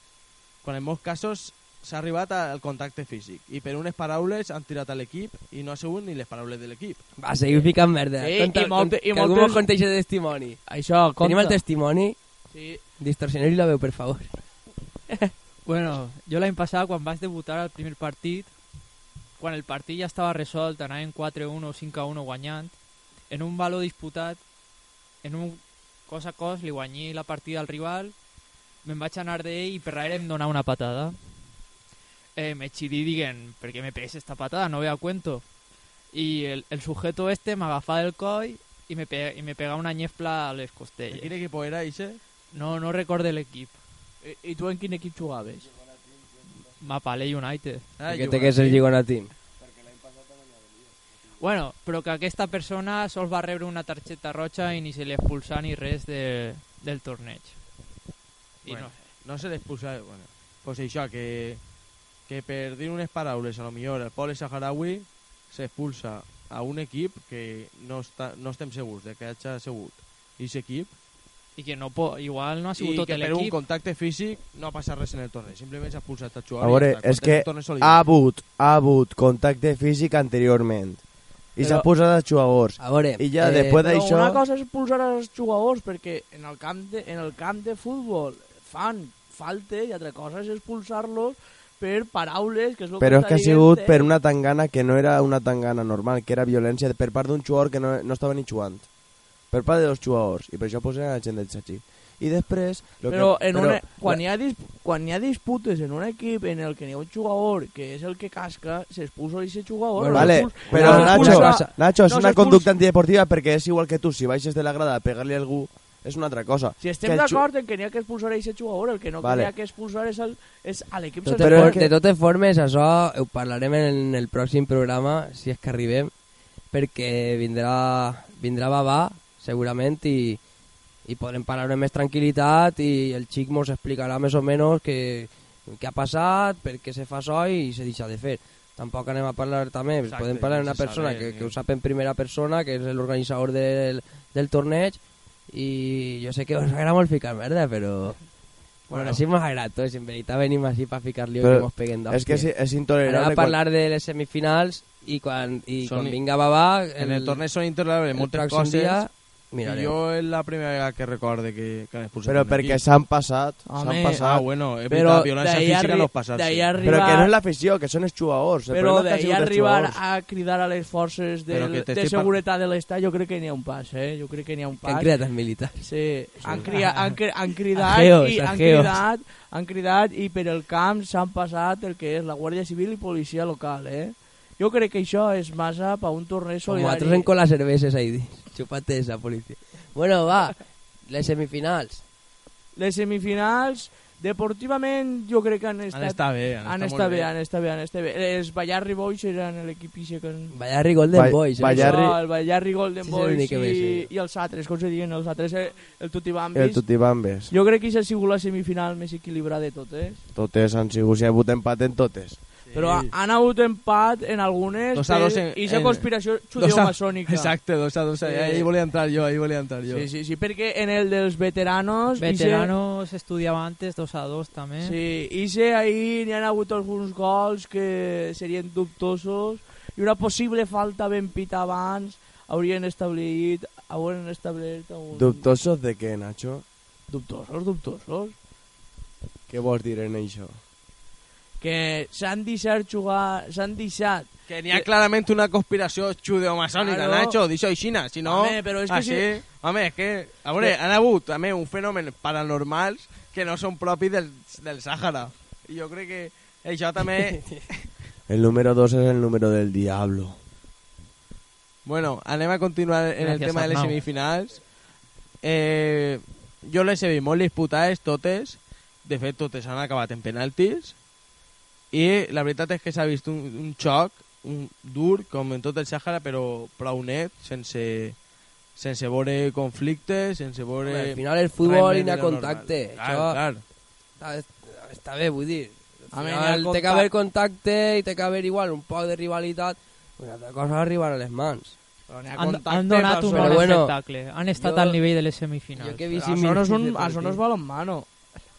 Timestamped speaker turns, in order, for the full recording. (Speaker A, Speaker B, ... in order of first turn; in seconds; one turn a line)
Speaker A: 0.6-7.0
Speaker B: 7.2-10.6
Speaker C: 8.2-9.7
Speaker C: 10.7-11.6
Speaker B: 11.2-12.2
Speaker C: 12.5-12.8
Speaker B: 13.0-14.4
Speaker D: 15.7-18.5
Speaker D: 19.4-22.8
Speaker D: 23.3-24.4
Speaker D: 25.2-28.1
Speaker D: 28.8-31.2
Speaker D: 32.4-35.4
Speaker D: 36.1-41.4
Speaker A: 41.1-42.2
Speaker D: 42.5-43.8
Speaker C: 44.2-45.7
Speaker D: 46.8-47.9
Speaker A: 48.0-48.9
Speaker B: 48.1-49.3
Speaker D: 51.4-57.6
Speaker D: 58.6-59.0
Speaker A: 58.6-61.6
Speaker A: 62.3-70.9
Speaker D: 71.6-73.6
Speaker A: 72.8-78.0
Speaker E: 76.6-81.0
Speaker E: 81.6-84.4
Speaker C: 81.6-81.9
Speaker B: 82.8-83.8
Speaker C: 83.8-94.1
Speaker E: 93.0-98.9
Speaker E: 99.5-104.2
Speaker C: 103.1-112.7
Speaker B: 110.0-111.7
Speaker E: 110.1-117.4
Speaker C: 116.8-121.8
Speaker E: 119.2-119.5
Speaker B: 121.3-126.1
Speaker E: 121.4-121.9
Speaker B: 126.7-130.4
Speaker B: 131.1-148.3
Speaker A: 140.1-141.6
Speaker B: 148.9-152.5
Speaker A: 148.9-149.2
Speaker E: 151.4-153.6
Speaker B: 153.1-157.4
Speaker A: 155.8-156.2
Speaker A: 157.0-159.0
Speaker B: 158.2-159.9
Speaker A: 159.6-162.8
Speaker E: 162.3-164.5
Speaker C: 163.7-164.2
Speaker A: 164.1-166.7
Speaker C: 164.9-167.3
Speaker E: 166.8-170.0
Speaker C: 168.7-175.1
Speaker A: 171.5-172.3
Speaker B: 174.8-175.9
Speaker C: 175.7-187.3
Speaker B: 177.8-179.0
Speaker B: 186.7-192.0
Speaker C: 192.8-200.5
Speaker A: 195.9-197.3
Speaker B: 200.5-202.0
Speaker E: 201.1-202.2
Speaker C: 201.6-206.8
Speaker B: 203.0-204.1
Speaker E: 206.6-207.5
Speaker C: 207.5-210.2
Speaker E: 210.3-212.4
Speaker A: 212.7-213.1
Speaker C: 212.7-217.5
Speaker A: 214.9-220.1
Speaker C: 218.2-218.7
Speaker C: 219.9-222.7
Speaker D: 222.2-225.0
Speaker C: 224.8-235.5
Speaker E: 235.1-236.7
Speaker C: 237.1-238.3
Speaker E: 239.5-240.6
Speaker C: 241.6-244.9
Speaker A: 244.5-257.8
Speaker C: 246.8-247.4
Speaker C: 248.2-249.4
Speaker B: 257.3-257.6
Speaker E: 258.3-260.4
Speaker A: 261.9-264.6
Speaker D: 263.2-264.0
Speaker A: 265.4-270.9
Speaker A: 271.9-278.2
Speaker A: 278.8-283.6
Speaker B: 280.9-283.4
Speaker B: 284.2-291.8
Speaker C: 286.1-287.1
Speaker C: 292.1-293.8
Speaker D: 292.4-296.1
Speaker B: 293.4-294.0
Speaker B: 294.6-295.0
Speaker B: 295.8-297.4
Speaker C: 296.1-298.1